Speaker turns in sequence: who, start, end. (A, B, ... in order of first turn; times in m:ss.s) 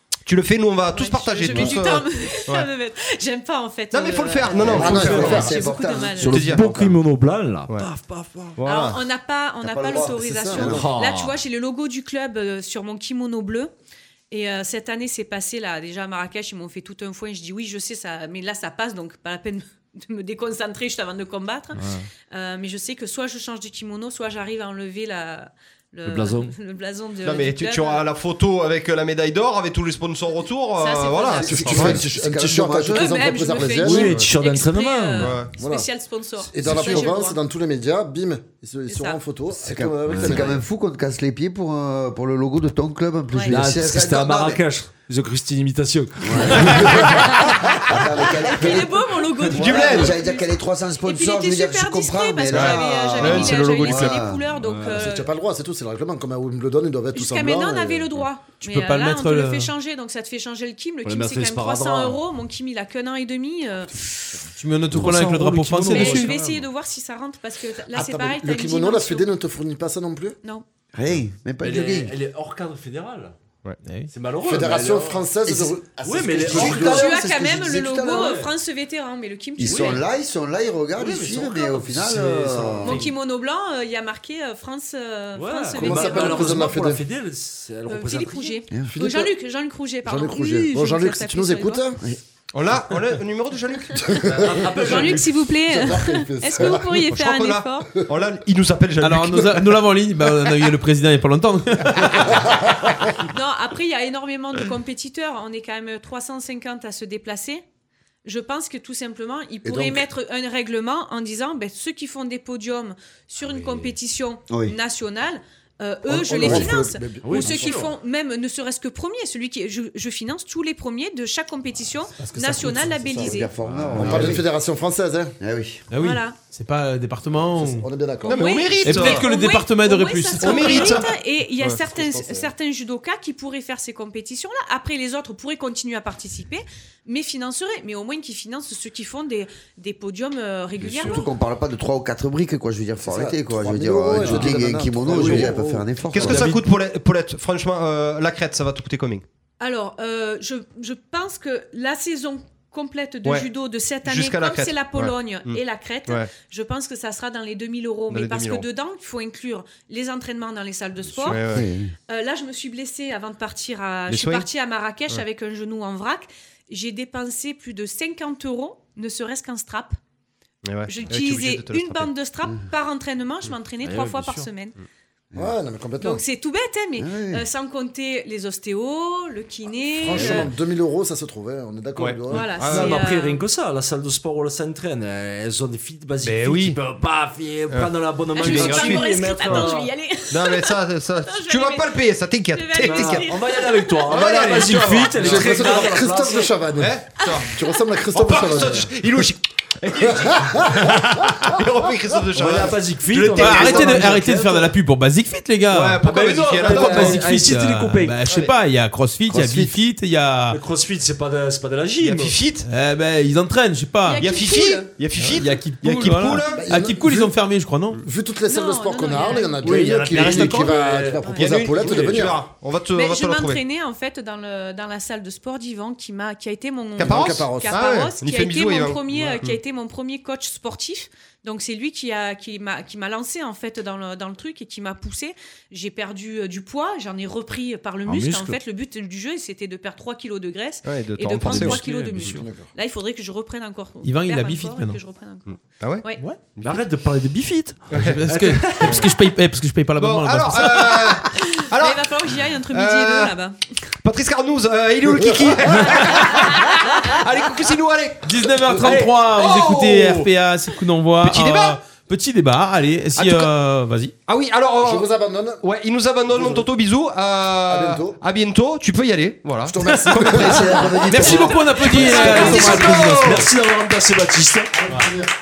0:00.2-0:02.7 A
0:00.9-0:06.4 B
0:03.9-0:05.4 A
0:04.6-0:07.0 C
0:04.7-0:05.6 D
0:04.7-0:05.4 E
0:06.2-0:08.6 E
0:06.2-0:06.6 A
0:08.6-0:09.0 A
0:08.6-0:13.7 B
0:09.6-0:10.1 C
0:09.7-0:10.9 D
0:10.5-0:11.4 E
0:14.3-0:28.0 B
0:21.8-0:22.1 E
0:26.0-0:26.5 E
0:27.2-0:32.0 A
0:30.8-0:31.9 B
0:31.4-0:34.2 D
0:31.6-0:33.2 C
0:32.9-0:37.4 B
0:33.8-0:35.3 E
0:35.2-0:35.5 A
0:35.6-0:35.9 D
0:36.4-0:40.6 D
0:38.9-0:39.2 B
0:39.5-0:44.6 C
0:40.1-0:40.5 E
0:43.3-0:43.6 B
0:43.5-0:47.2 E
0:46.2-0:54.4 C
0:47.1-0:47.5 B
0:48.4-0:50.5 B
0:49.5-0:50.2 A
0:51.0-0:55.3 B
0:52.5-0:54.2 A
0:54.6-0:55.0 E
0:54.9-0:58.2 D
0:57.1-1:04.4 B
0:58.6-0:59.7 F
1:01.0-1:02.2 E
1:04.6-1:06.4 F
1:04.9-1:06.6 E
1:05.9-1:09.3 B
1:07.9-1:10.4 D
1:10.9-1:12.1 C
1:11.6-1:13.3 E
1:13.8-1:14.1 F
1:14.1-1:17.2 E
1:14.4-1:17.0 D
1:16.2-1:18.4 C
1:16.7-1:20.0 B
1:18.0-1:18.5 E
1:19.6-1:23.0 C
1:19.6-1:20.0 E
1:20.9-1:23.1 E
1:22.8-1:26.6 B
1:25.3-1:28.6 E
1:25.7-1:27.0 D
1:27.9-1:31.8 B
1:28.9-1:29.3 D
1:30.0-1:32.0 D
1:32.5-1:34.2 A
1:34.0-1:36.9 D
1:34.2-1:35.4 E
1:34.8-1:37.9 B
1:36.8-1:39.8 A
1:39.0-1:42.4 F
1:43.3-1:47.6 B
1:48.2-2:03.5 B
1:49.6-1:50.0 D
1:53.4-1:53.9 E
1:54.5-1:54.8 C
1:56.1-1:57.8 D
1:56.4-1:56.7 E
1:57.2-1:57.9 E
2:02.2-2:03.1 F
2:03.1-2:04.4 C
2:03.6-2:04.4 E
2:04.0-2:05.3 D
2:05.4-2:05.9 C
2:05.9-2:07.8 F
2:06.0-2:06.4 B
2:07.4-2:08.6 D
2:08.2-2:21.3 B
2:08.3-2:09.3 A
2:08.8-2:10.9 F
2:10.4-2:11.1 A
2:11.8-2:12.5 D
2:20.8-2:26.6 C
2:23.0-2:26.5 D
2:25.1-2:25.5 E
2:26.1-2:29.2 A
2:26.2-2:26.6 E
2:29.6-2:41.4 B
2:34.0-2:36.3 A
2:38.1-2:38.6 A
2:41.2-2:41.7 A
2:41.4-2:41.9 C
2:42.1-2:49.9 B
2:44.1-2:44.5 A
2:50.6-2:52.1 A
2:50.9-2:54.8 B
2:53.8-2:54.5 E
2:55.3-2:56.2 D
2:56.0-3:00.5 B
2:57.0-2:57.4 C
3:00.0-3:02.4 D
3:00.1-3:00.5 E
3:02.0-3:03.0 A
3:02.3-3:03.4 B
3:02.5-3:09.9 E
3:06.2-3:06.8 A
3:07.7-3:09.7 A
3:08.3-3:14.1 B
3:10.3-3:13.3 A
3:12.8-3:16.6 E
3:14.1-3:16.0 A
3:15.1-3:18.9 D
3:16.8-3:17.5 A
3:18.1-3:24.2 A
3:20.0-3:21.5 D
3:22.4-3:24.6 E
3:23.4-3:26.0 F
3:25.7-3:27.3 A
3:26.0-3:28.2 E
3:26.6-3:30.6 F
3:28.3-3:28.5 A
3:29.3-3:29.7 C
3:30.5-3:32.3 E
3:32.0-3:32.7 A
3:32.6-3:34.2 F
3:34.0-3:34.9 B
3:34.2-3:36.6 A
3:35.1-3:38.0 F
3:36.5-3:37.4 D
3:38.0-3:42.4 D
3:38.4-3:39.6 B
3:39.6-3:42.3 E
3:40.1-3:40.5 F
3:41.4-3:43.6 A
3:42.9-4:06.2 B
3:47.0-3:49.6 A
3:47.0-3:47.8 D
3:58.1-3:58.6 E
4:00.8-4:01.8 A
4:01.4-4:02.5 E
4:02.2-4:02.7 D
4:04.0-4:05.0 F
4:05.5-4:06.0 A
4:06.6-4:09.1 E
4:07.9-4:08.2 A
4:07.9-4:11.3 F
4:10.0-4:13.3 A
4:11.7-4:13.6 B
4:14.0-4:20.3 A
4:15.0-4:16.1 D
4:15.9-4:17.1 B
4:18.2-4:24.1 F
4:18.6-4:19.0 D
4:21.2-4:21.8 A
4:23.2-4:23.5 A
4:24.3-4:25.1 A
4:24.8-4:25.6 D
4:25.6-4:33.5 A
4:26.3-4:26.7 D
4:27.7-4:28.2 D
4:29.6-4:32.9 D
4:30.4-4:32.9 C
4:31.1-4:33.4 F
4:32.0-4:34.7 E
4:34.7-4:35.3 D